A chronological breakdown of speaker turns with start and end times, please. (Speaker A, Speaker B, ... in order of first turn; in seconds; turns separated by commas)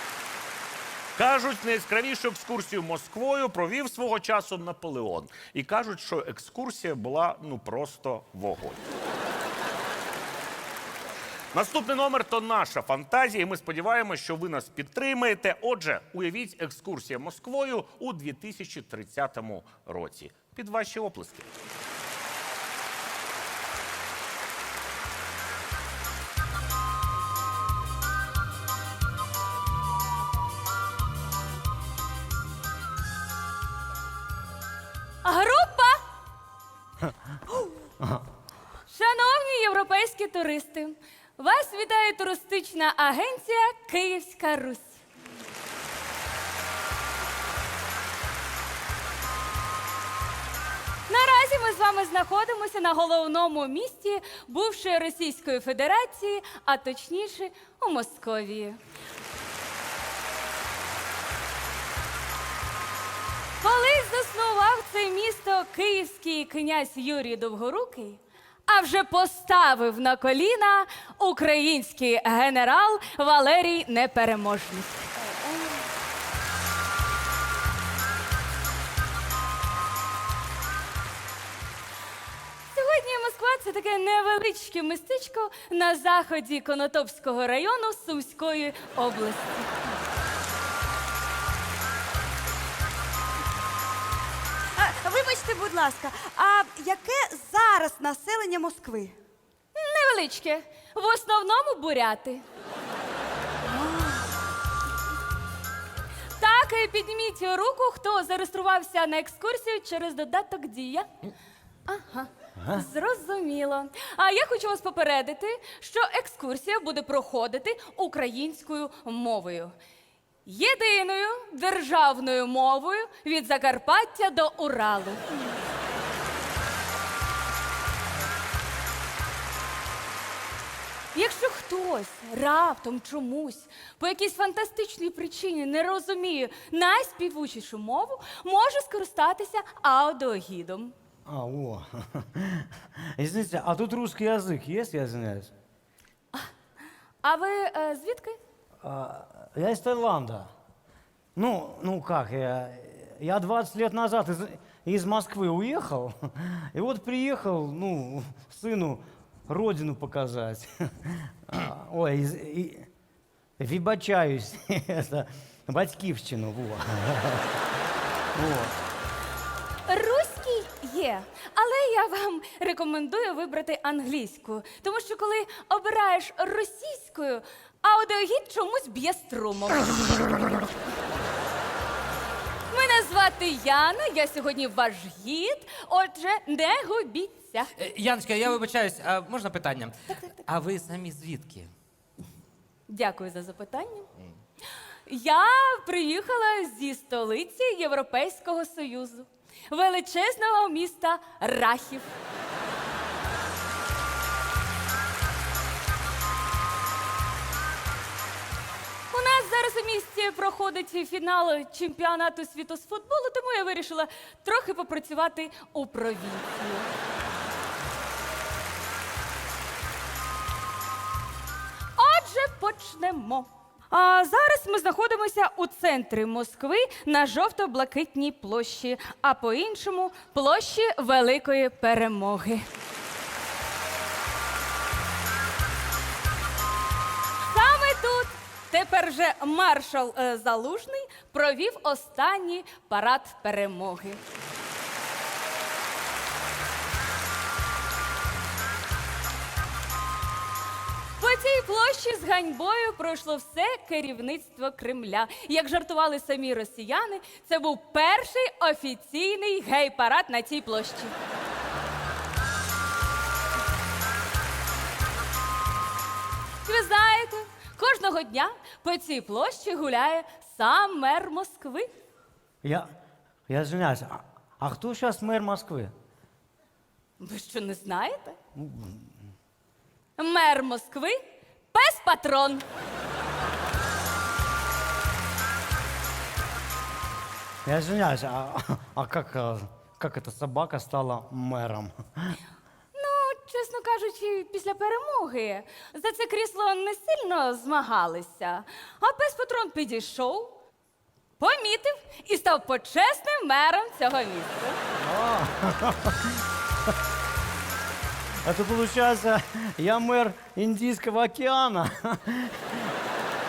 Speaker A: 1.2-8.8, Speaker A: 11.5-21.5, Speaker B: 35.2-36.0, Speaker B: 38.9-45.0, Speaker B: 51.1-58.8, Speaker B: 63.6-75.1, Speaker C: 75.2-75.8, Speaker B: 82.7-90.0, Speaker C: 94.8-99.1, Speaker B: 99.7-102.4, Speaker B: 106.4-111.1, Speaker B: 111.9-119.7, Speaker D: 112.6-112.8, Speaker B: 120.4-125.2, Speaker B: 131.1-140.9, Speaker D: 141.2-145.5, Speaker B: 147.2-148.4, Speaker D: 148.8-150.5, Speaker D: 151.3-162.9, Speaker D: 163.6-167.5, Speaker D: 168.3-168.7, Speaker B: 169.9-180.5, Speaker B: 182.7-187.7, Speaker E: 187.8-191.7, Speaker B: 192.9-194.1, Speaker B: 195.1-202.1, Speaker B: 209.1-216.9, Speaker B: 222.0-232.7, Speaker B: 237.4-244.2, Speaker B: 251.2-261.1, Speaker B: 266.6-271.9, Speaker D: 272.6-272.9, Speaker D: 273.5-275.9, Speaker B: 277.2-278.4, Speaker D: 278.5-279.1, Speaker B: 280.2-281.2, Speaker B: 281.7-282.6, Speaker D: 287.6-292.4, Speaker B: 292.9-300.6, Speaker B: 301.4-304.8, Speaker D: 304.9-306.4, Speaker D: 308.4-312.9